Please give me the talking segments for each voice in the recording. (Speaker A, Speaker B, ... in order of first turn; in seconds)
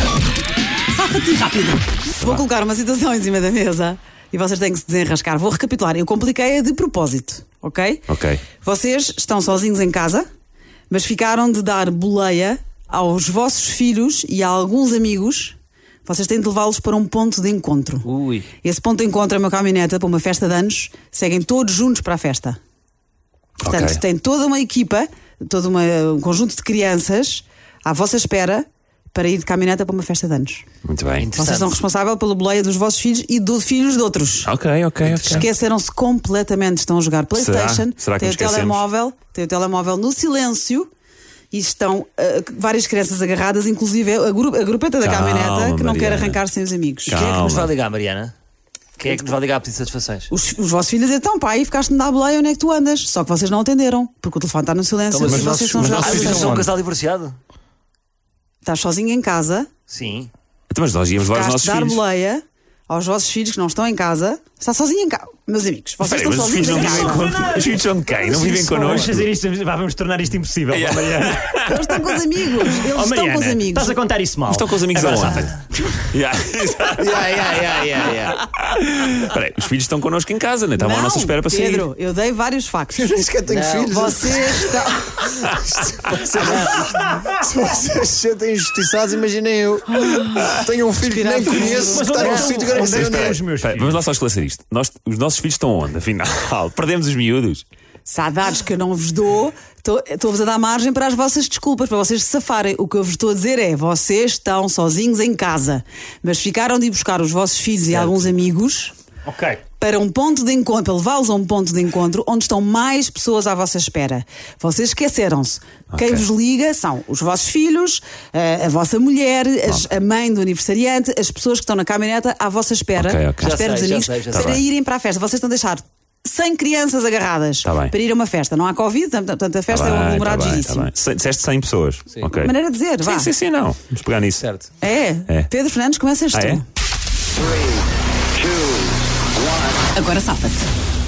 Speaker A: 0.9-8.0, 8.6-10.2, 10.9-18.1, 18.6-22.6, 23.6-30.6, 31.4-34.5, 35.2-40.9, 41.5-47.2, 50.3-56.7, 58.6-59.7, 61.3-67.3, 71.7-74.0, 80.8-83.1, 83.8-85.3, 91.0-92.1, 98.0-108.9, 109.8-130.9, 132.3-133.3, 134.8-136.6, 139.9-140.7
Speaker B: 8.1-8.4, 23.6-24.0, 30.8-31.3, 34.4-35.5, 37.3-38.8, 45.0-46.4, 47.1-47.7, 60.7-62.0, 66.0-69.3, 70.7-72.7, 74.5-75.5, 76.1-77.3, 78.3-81.9, 92.7-97.6, 115.9-116.2, 122.9-123.6, 124.3-124.6, 127.6-127.9, 129.7-134.4, 136.3-136.6
Speaker C: 18.0-18.5, 31.2-31.8, 35.1-35.4, 47.1-48.3, 49.0-50.3, 55.2-57.4, 59.9-60.3, 83.5-84.1, 86.5-86.8, 92.2-92.6, 123.4-124.6, 134.4-134.7
Speaker D: 55.1-55.9, 77.0-78.4, 82.9-84.6, 85.8-93.4
Speaker E: 55.3-56.7, 66.6-71.4, 72.9-75.5, 91.7-94.0, 107.9-108.2, 109.2-109.6